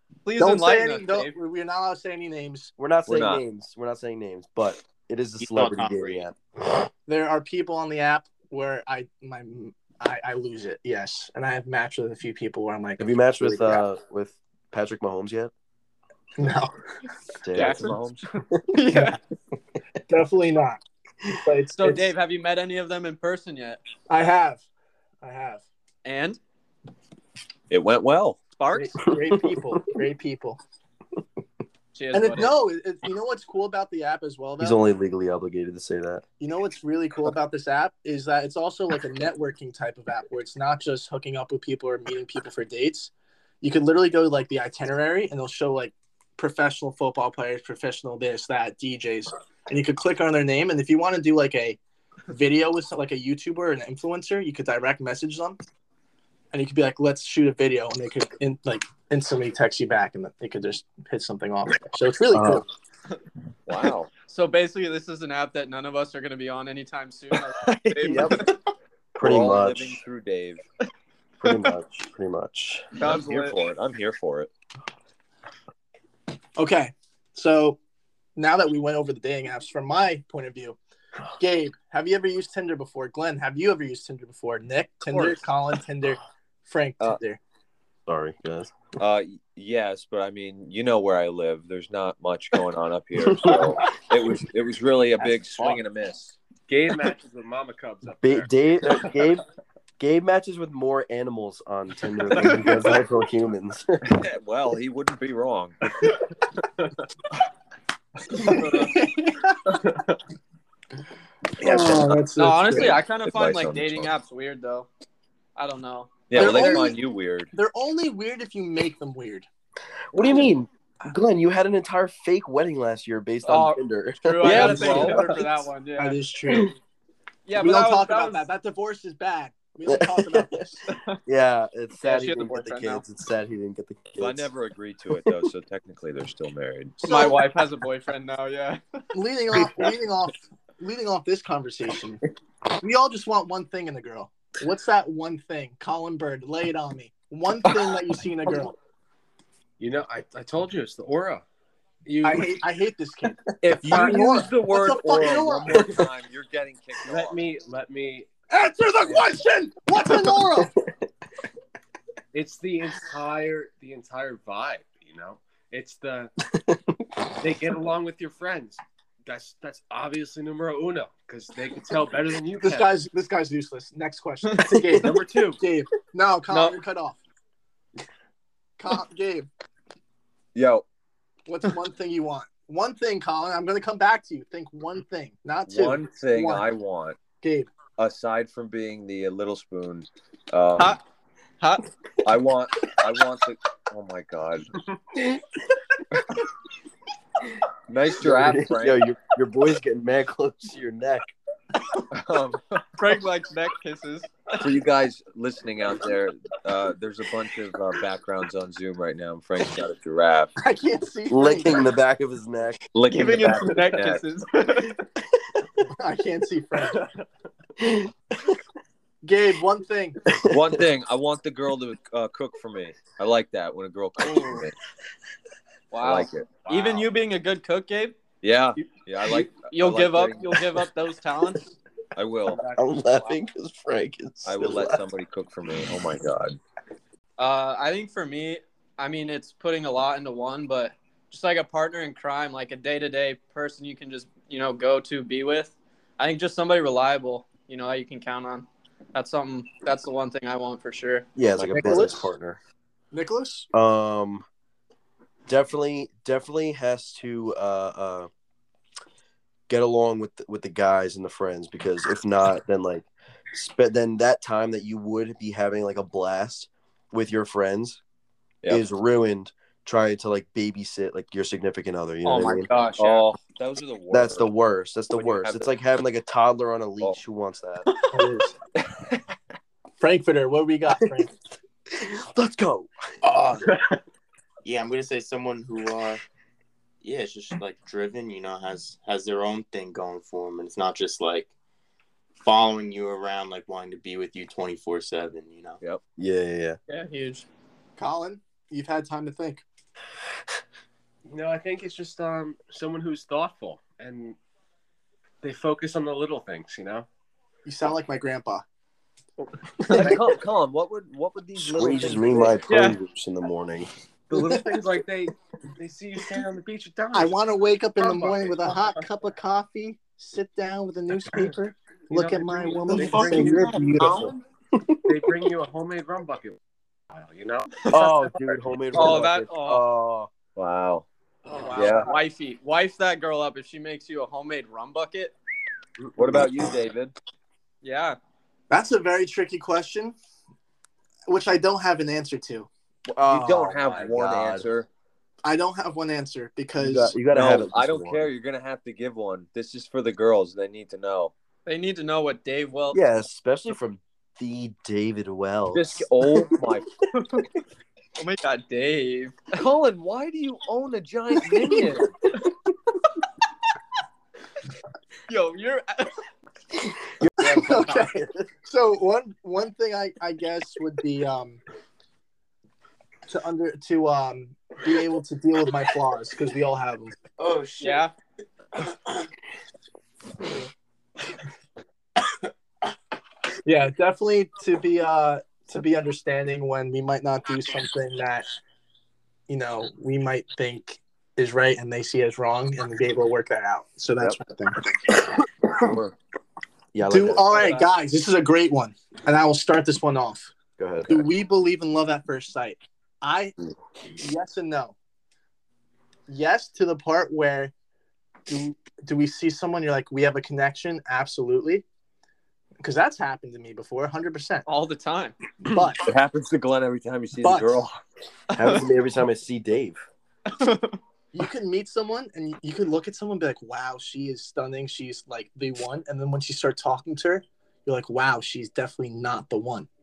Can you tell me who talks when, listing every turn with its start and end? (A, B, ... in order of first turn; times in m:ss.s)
0:00.2-0:01.3 A
0:00.4-0:02.7 B
0:02.8-0:06.4 C
0:03.1-0:03.4 D
0:05.4-0:06.2 E
0:07.1-0:13.8 B
0:13.0-0:15.5 C
0:16.4-0:16.7 B
0:17.4-0:18.0 C
0:17.5-0:18.2 D
0:17.6-0:17.9 A
0:18.7-0:19.2 A
0:18.9-0:19.2 B
0:20.1-0:22.1 B
0:21.8-0:23.8 A
0:24.1-0:24.6 B
0:25.2-0:25.6 B
0:26.0-0:26.4 A
0:27.7-0:28.4 D
0:28.6-0:28.9 A
0:28.7-0:30.6 B
0:31.9-0:32.5 A
0:32.1-0:34.8 B
0:34.6-0:36.2 C
0:36.4-0:43.1 B
0:43.6-0:51.8 B
0:52.3-0:55.6 B
0:56.5-1:02.6 B
1:02.3-1:02.6 C
1:03.7-1:04.1 D
1:04.3-1:08.5 A
1:07.6-1:08.5 D
1:08.0-1:08.4 C
1:09.2-1:10.0 C
1:09.2-1:10.6 D
1:11.4-1:12.9 C
1:12.9-1:13.6 A
1:13.0-1:14.5 D
1:16.6-1:17.8 B
1:18.4-1:20.8 B
1:21.4-1:27.4 B
1:28.0-1:28.7 C
1:29.0-1:36.4 D
1:33.2-1:33.7 C
1:36.7-1:38.5 F
1:38.2-1:39.4 C
1:40.0-1:44.0 C
1:44.0-1:45.8 D
1:48.4-1:49.0 A
1:48.4-1:49.8 B
1:51.6-1:53.0 B
1:51.6-1:54.1 D
1:52.4-1:54.9 A
1:55.6-1:56.9 A
1:56.3-1:57.5 D
1:56.3-1:57.0 B
1:57.5-1:59.5 B
2:00.1-2:05.2 C
2:03.4-2:06.2 A
2:04.4-2:05.2 D
2:04.4-2:06.7 B
2:07.4-2:08.5 A
2:07.6-2:10.8 B
2:09.8-2:10.5 C
2:10.9-2:11.2 A
2:11.2-2:14.5 C
2:12.0-2:13.0 A
2:14.2-2:17.0 D
2:17.0-2:17.4 B
2:17.0-2:18.8 A
2:19.1-2:22.2 B
2:22.8-2:28.7 B
2:29.8-2:31.4 F
2:32.0-2:32.6 F
2:32.2-2:36.0 B
2:33.6-2:37.4 D
2:37.0-2:38.3 F
2:38.5-2:40.7 B
2:42.3-2:46.3 F
2:47.4-2:52.9 F
2:52.6-2:57.2 B
2:54.6-2:55.6 F
2:56.5-2:56.8 A
2:58.8-2:59.5 B
3:00.5-3:00.8 D
3:01.5-3:06.7 B
3:05.6-3:07.2 D
3:07.4-3:07.7 B
3:08.0-3:11.0 D
3:11.6-3:11.8 A
3:12.2-3:14.7 D
3:17.9-3:19.0 D
3:18.2-3:21.3 C
3:22.1-3:22.8 D
3:23.0-3:24.3 A
3:24.6-3:30.5 D
3:30.6-3:31.9 B
3:31.3-3:32.8 C
3:32.9-3:34.2 D
3:33.1-3:35.0 A
3:35.9-3:37.0 B
3:39.2-3:40.2 B
3:40.4-3:40.8 C
3:40.5-3:44.7 D
3:45.9-3:48.2 A
3:46.0-3:46.5 D
3:46.7-3:47.1 F
3:48.4-3:50.8 D
3:48.8-3:51.6 A
3:52.1-3:52.6 D
3:52.8-3:55.0 C
3:54.4-3:56.6 D
3:57.4-4:11.2 A
4:11.4-4:12.6 C
4:11.6-4:12.6 D
4:11.7-4:12.3 B
4:13.1-4:13.7 B
4:13.7-4:14.4 C
4:15.5-4:18.3 C
4:19.7-4:28.0 C
4:28.7-4:32.7 C
4:32.2-4:33.2 A
4:33.0-4:34.5 D
4:34.1-4:37.9 C
4:35.1-4:35.7 D
4:38.1-4:38.5 B
4:40.0-4:41.3 B
4:40.9-4:41.3 C
4:41.9-4:42.9 C
4:43.2-4:43.6 E
4:43.6-4:44.0 F
4:44.6-4:46.2 E
4:47.0-4:51.5 E
4:52.4-4:55.8 E
4:56.2-4:56.8 C
4:56.9-4:57.4 A
4:58.0-4:59.6 B
5:01.3-5:04.4 F
5:05.4-5:07.1 F
5:07.6-5:08.6 B
5:09.9-5:12.6 D
5:09.9-5:10.2 B
5:11.6-5:14.7 C
5:12.7-5:13.0 A
5:14.3-5:17.3 F
5:17.1-5:24.3 B
5:18.0-5:19.0 F
5:22.1-5:24.0 F
5:24.8-5:25.2 C
5:25.0-5:26.6 F
5:27.1-5:29.2 F
5:27.9-5:30.3 C
5:28.9-5:29.8 A
5:30.6-5:31.0 D
5:31.4-5:32.2 F
5:31.5-5:35.3 A
5:31.7-5:32.1 D
5:36.0-5:36.8 C
5:36.2-5:37.1 D
5:37.8-5:38.2 A
5:38.7-5:40.1 B
5:41.3-5:42.7 B
5:43.1-5:44.7 C
5:43.2-5:44.9 D
5:45.4-5:47.2 B
5:46.8-5:48.3 C
5:47.3-5:51.3 D
5:51.6-5:53.0 A
5:52.9-5:56.1 C
5:55.7-5:57.0 D
5:58.2-5:59.4 A
5:59.5-6:02.2 D
6:05.3-6:06.1 A
6:07.2-6:08.4 C
6:07.4-6:11.6 B
6:13.3-6:17.1 B
6:17.4-6:18.0 E
6:17.8-6:18.1 A
6:18.8-6:19.2 E
6:23.6-6:28.5 B
6:29.5-6:35.4 B
6:35.8-6:36.1 D
6:36.9-6:37.7 C
6:37.1-6:40.5 B
6:37.5-6:37.9 A
6:40.8-6:41.3 C
6:41.1-6:43.5 B
6:44.2-6:44.9 B
6:46.3-6:47.7 B
6:48.5-6:51.8 B
6:52.8-6:54.6 B
6:54.6-6:55.4 A
6:55.6-6:56.0 B
6:56.0-6:58.0 D
6:57.4-6:57.8 B
6:58.5-6:58.8 A
6:58.5-7:00.0 C
7:00.5-7:01.0 A
7:01.3-7:09.9 B